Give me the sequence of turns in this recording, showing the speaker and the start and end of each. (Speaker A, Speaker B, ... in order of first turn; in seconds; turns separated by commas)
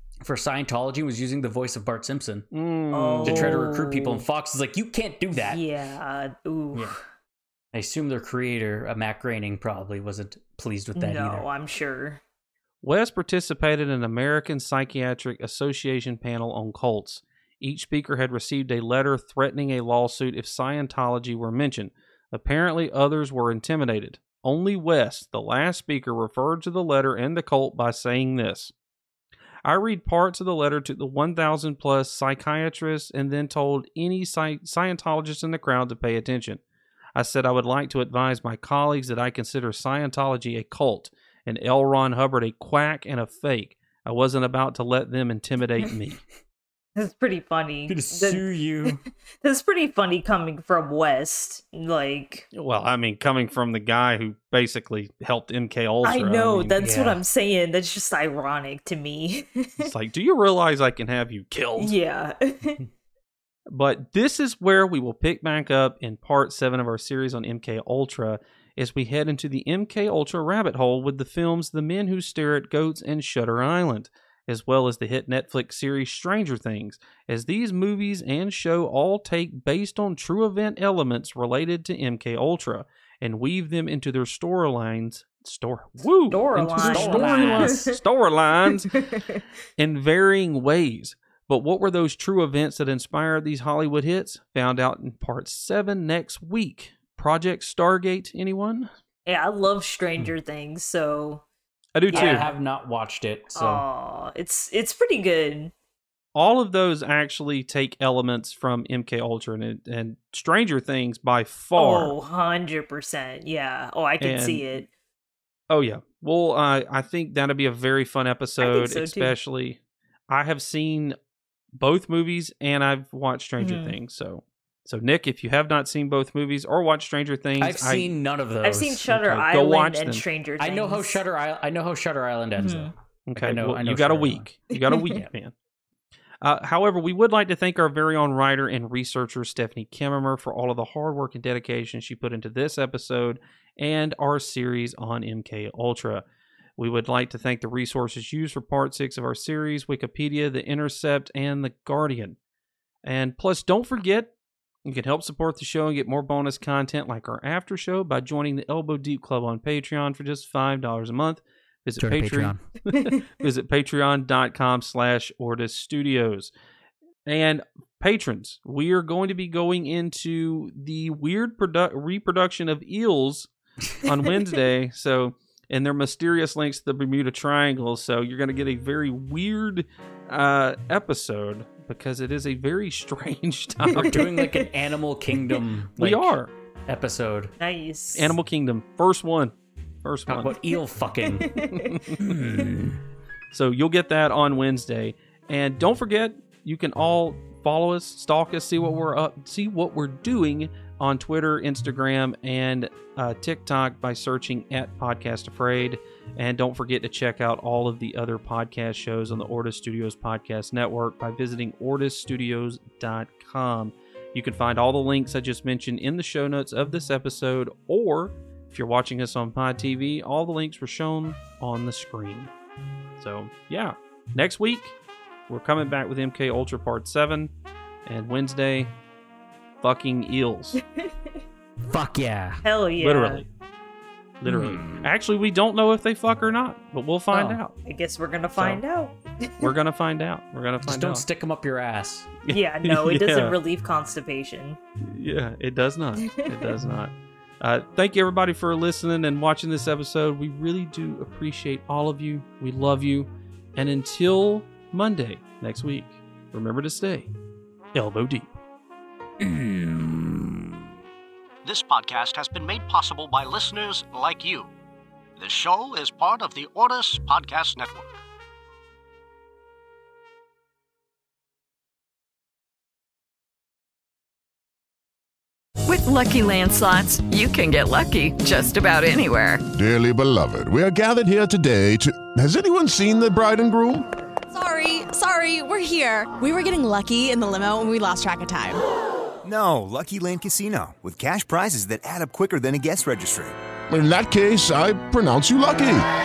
Speaker A: 0.2-2.5, Speaker B: 2.5-3.6, Speaker C: 2.9-4.2, Speaker A: 3.2-5.6, Speaker C: 5.3-7.0, Speaker A: 7.7-11.5, Speaker C: 10.9-12.2, Speaker B: 12.8-28.7, Speaker B: 29.6-36.6, Speaker B: 37.1-46.2, Speaker C: 47.0-52.5, Speaker A: 47.9-49.0, Speaker B: 52.5-56.8, Speaker C: 56.0-59.9, Speaker A: 56.8-57.2, Speaker B: 59.8-62.0, Speaker C: 61.8-62.8, Speaker B: 63.7-89.1, Speaker C: 86.3-88.0, Speaker A: 86.6-87.8, Speaker C: 89.0-89.4, Speaker B: 89.8-98.9, Speaker C: 99.3-101.4, Speaker B: 102.0-102.5, Speaker C: 102.1-102.5, Speaker A: 102.1-103.8, Speaker C: 103.5-105.7, Speaker B: 106.3-112.2, Speaker C: 111.8-114.9, Speaker B: 114.2-114.8, Speaker B: 115.7-121.2, Speaker C: 118.6-119.3, Speaker B: 121.8-128.1, Speaker C: 123.6-124.0, Speaker A: 127.6-129.1, Speaker C: 128.6-131.2, Speaker B: 129.1-130.2, Speaker A: 130.6-134.5, Speaker C: 132.6-132.9, Speaker B: 133.3-135.5, Speaker C: 134.7-135.2, Speaker B: 136.4-146.2, Speaker B: 146.8-152.4, Speaker B: 153.1-154.3, Speaker B: 154.8-166.5, Speaker A: 162.0-162.6, Speaker B: 167.3-173.5, Speaker B: 174.0-184.2, Speaker A: 183.9-186.3, Speaker C: 183.9-184.7, Speaker B: 186.0-186.5, Speaker A: 186.9-187.5, Speaker C: 187.6-188.3, Speaker B: 188.2-190.6, Speaker A: 190.3-191.6, Speaker C: 191.4-192.1, Speaker B: 191.7-192.2, Speaker A: 192.2-193.0, Speaker B: 193.5-222.5, Speaker B: 223.2-225.0, Speaker B: 225.5-227.5, Speaker B: 228.1-228.9, Speaker B: 229.8-230.8, Speaker C: 230.8-231.4, Speaker A: 231.9-232.6, Speaker C: 232.6-233.4, Speaker B: 233.0-233.5, Speaker B: 234.4-237.8, Speaker A: 234.5-235.1, Speaker C: 237.8-239.7, Speaker B: 238.6-238.8, Speaker B: 239.6-241.3, Speaker A: 240.8-242.4, Speaker B: 242.5-243.6, Speaker C: 242.5-244.8, Speaker B: 245.0-257.3, Speaker C: 246.3-246.5, Speaker B: 257.9-258.5, Speaker A: 259.4-260.5, Speaker D: 261.6-264.7, Speaker D: 265.4-268.2, Speaker E: 275.9-279.6, Speaker F: 279.7-284.1, Speaker G: 284.5-288.8, Speaker H: 289.4-293.6, Speaker F: 293.9-296.1